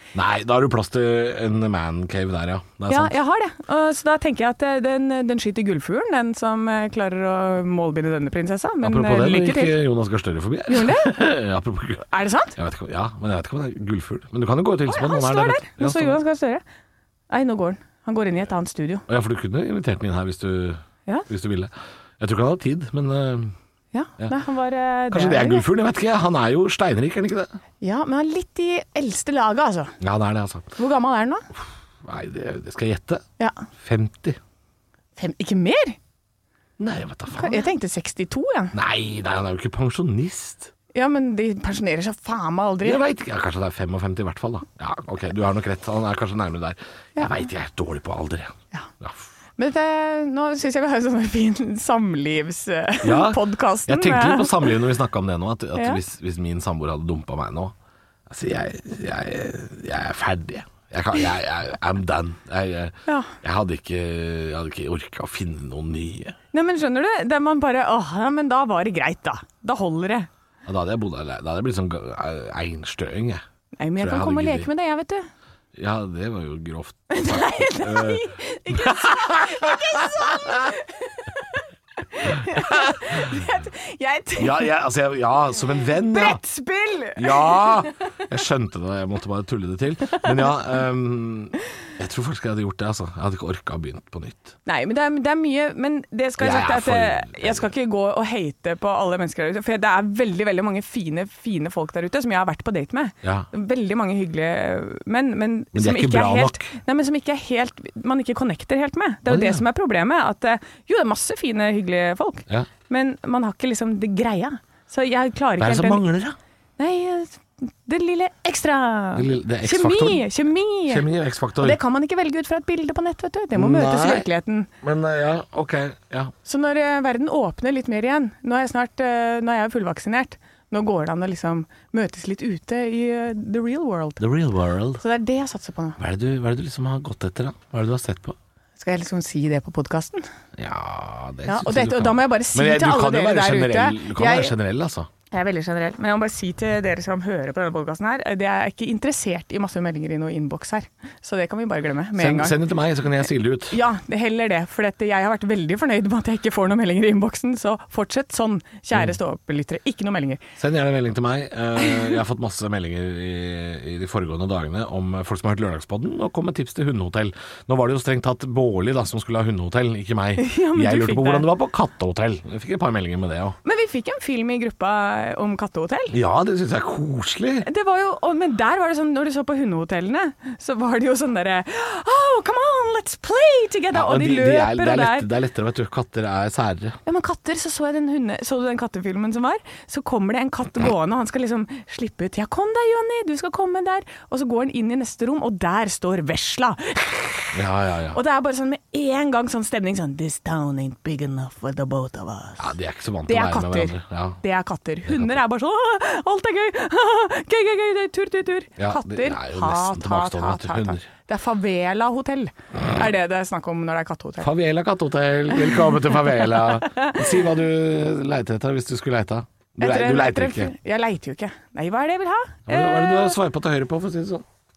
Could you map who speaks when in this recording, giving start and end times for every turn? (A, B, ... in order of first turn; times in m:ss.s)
0:00.1-0:03.1 A
0:02.9-0:09.8 B
0:08.8-0:16.2 A
0:10.7-0:11.2 B
0:12.1-0:12.5 B
0:14.9-0:16.6 B
0:17.3-0:19.0 B
0:19.1-0:23.5 A
0:23.9-0:25.6 B
0:25.1-0:27.6 A
0:27.8-0:29.9 B
0:30.0-0:30.7 A
0:30.8-0:31.4 B
0:32.0-0:33.2 A
0:33.4-0:33.6 B
0:33.8-0:34.4 A
0:35.2-0:36.0 B
0:36.8-0:37.7 A
0:37.3-0:38.7 B
0:38.7-0:40.7 A
0:40.9-0:43.0 B
0:42.8-0:49.2 A
0:47.2-0:47.4 B
0:49.6-0:54.7 B
0:53.0-0:57.7 A
0:58.3-1:06.4 A
1:03.1-1:03.3 B
1:06.5-1:10.3 B
1:10.6-1:13.4 A
1:13.8-1:15.2 B
1:14.0-1:14.7 A
1:15.8-1:20.8 A
1:17.1-1:24.7 B
1:22.3-1:23.4 A
1:24.4-1:26.4 A
1:26.1-1:27.9 B
1:27.2-1:34.5 A
1:34.6-1:56.0 B
1:36.4-1:37.7 A
1:43.2-1:43.5 A
1:45.7-1:46.6 A
1:49.3-1:49.6 A
1:55.6-1:56.4 A
1:56.8-2:01.0 B
1:59.1-2:00.3 A
2:00.9-2:01.8 A
2:01.6-2:04.7 B
2:03.5-2:04.3 A
2:04.8-2:06.3 A
2:06.4-2:14.2 B
2:14.2-2:15.0 A
2:15.0-2:16.0 B
2:16.0-2:18.3 A
2:18.8-2:20.2 B
2:20.6-2:25.1 A
2:21.5-2:24.5 B
2:25.3-2:32.6 B
2:32.2-2:33.8 A
2:33.7-2:40.4 B
2:40.6-2:53.6 A
2:41.8-2:42.2 B
2:50.4-2:51.4 B
2:53.6-2:56.2 B
2:56.1-2:57.6 A
2:57.6-3:05.3 B
3:03.9-3:07.0 A
3:07.0-3:17.6 B
3:17.5-3:18.2 A
3:18.1-3:22.7 B
3:22.6-3:24.4 A
3:23.3-3:34.5 B
3:25.1-3:25.4 A
3:28.8-3:31.1 A
3:34.4-3:40.7 A
3:35.6-3:37.2 B
3:39.8-3:43.4 B
3:42.7-3:44.4 A